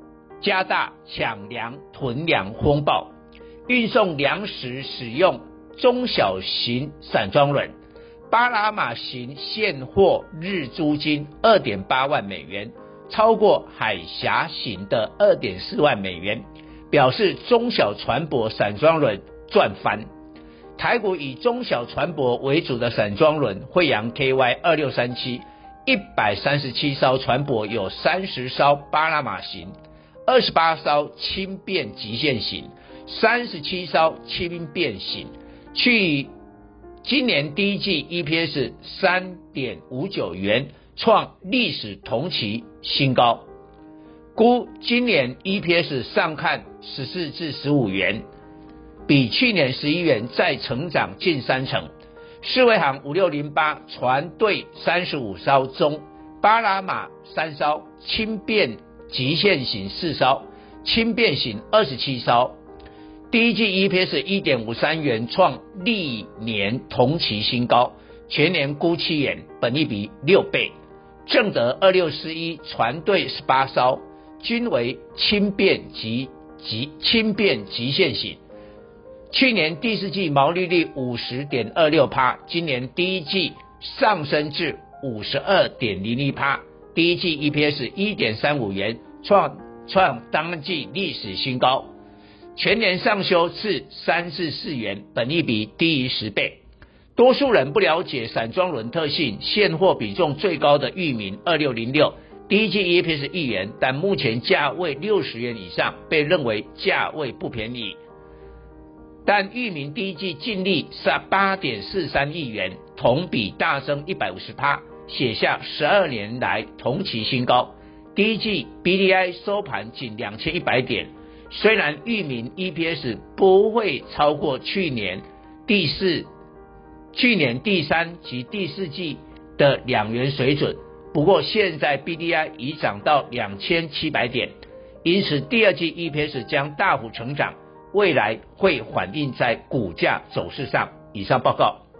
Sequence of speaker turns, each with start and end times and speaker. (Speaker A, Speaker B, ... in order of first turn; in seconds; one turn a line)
Speaker A: 0.4-3.1
Speaker A: 3.7-7.7
Speaker A: 8.3-20.1
Speaker A: 20.8-29.7
Speaker A: 30.2-36.3
Speaker A: 37.0-43.5
Speaker A: 44.4-48.2
Speaker A: 49.1-51.9
Speaker A: 52.4-62.6
Speaker A: 63.3-78.4
Speaker A: 79.3-91.9
Speaker A: 92.5-96.6
Speaker A: 97.2-108.0
Speaker A: 109.2-126.3
Speaker A: 127.1-141.8